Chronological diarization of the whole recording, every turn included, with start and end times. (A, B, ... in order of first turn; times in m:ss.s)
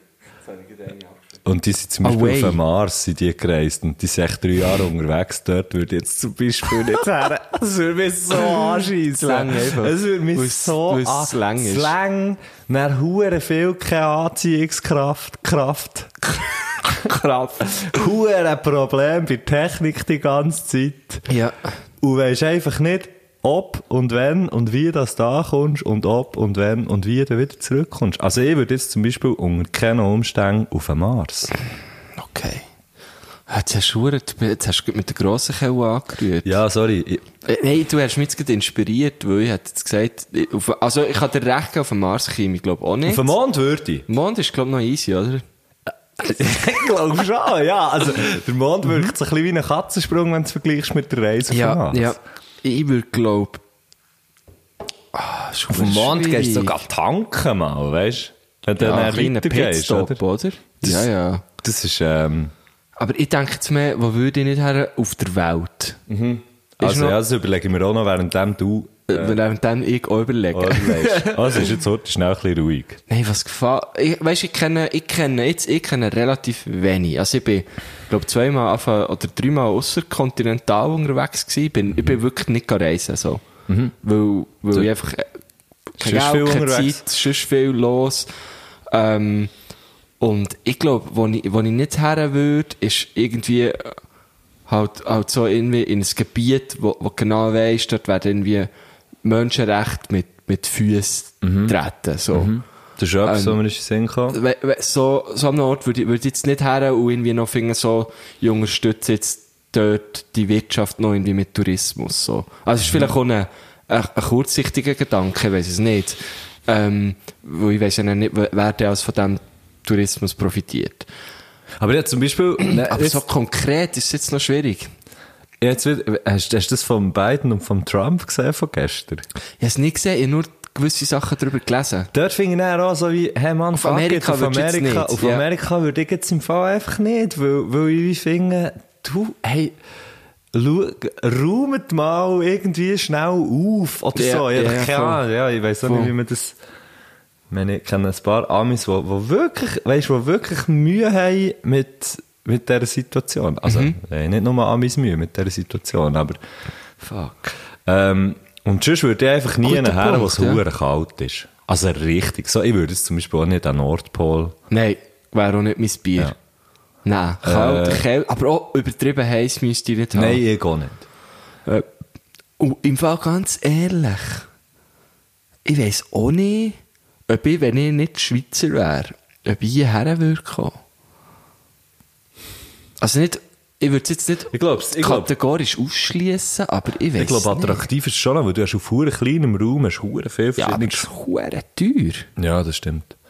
0:00.4-0:01.4 A
0:01.4-0:16.2 B
0:02.0-0:02.6 A
0:09.1-0:11.9 A
0:17.0-0:17.7 A
0:17.6-0:21.3 B
0:21.3-0:21.7 A
0:22.0-0:31.5 B
0:32.2-0:32.7 A
0:33.5-0:36.6 A
0:36.4-0:37.2 B
0:37.4-0:43.3 A
0:43.1-0:44.1 B
0:44.1-0:45.4 A
0:46.2-0:52.2 B
0:51.5-0:53.6 A
0:55.1-0:56.8 A
0:55.7-1:00.2 B
0:58.8-1:01.4 A
1:00.8-1:01.1 B
1:01.6-1:02.5 B
1:03.0-1:06.0 A
1:06.1-1:09.4 B
1:06.8-1:07.2 A
1:09.1-1:11.7 A
1:10.5-1:13.0 B
1:13.1-1:23.4 A
1:23.7-1:23.9 B
1:24.0-1:25.3 A
1:26.0-1:28.3 A
1:26.0-1:27.0 B
1:28.9-1:29.5 A
1:30.2-1:34.0 A
1:34.7-1:38.7 A
1:39.2-1:42.6 A
1:41.4-1:41.8 B
1:42.3-1:44.4 B
1:43.2-1:43.6 A
1:44.3-2:01.1 A
2:01.8-2:03.2 B
2:02.6-2:04.9 A
2:05.6-2:09.2 B
2:09.6-2:12.1 A
2:12.1-2:19.8 B
2:13.8-2:15.4 A
2:20.5-2:26.6 B
2:24.2-2:25.2 A
2:25.8-2:26.1 A
2:27.5-2:36.4 B
2:33.7-2:34.0 A
2:37.0-2:44.6 B
2:39.6-2:40.6 A
2:44.7-2:46.4 A
2:47.0-2:50.4 A
2:47.4-2:48.0 B
2:50.1-2:51.0 B
2:52.6-2:54.5 A
2:55.6-3:00.8 A
3:03.0-3:07.8 A
3:04.5-3:05.3 B
3:07.2-3:11.1 B
3:10.6-3:12.3 A
3:12.4-3:13.1 B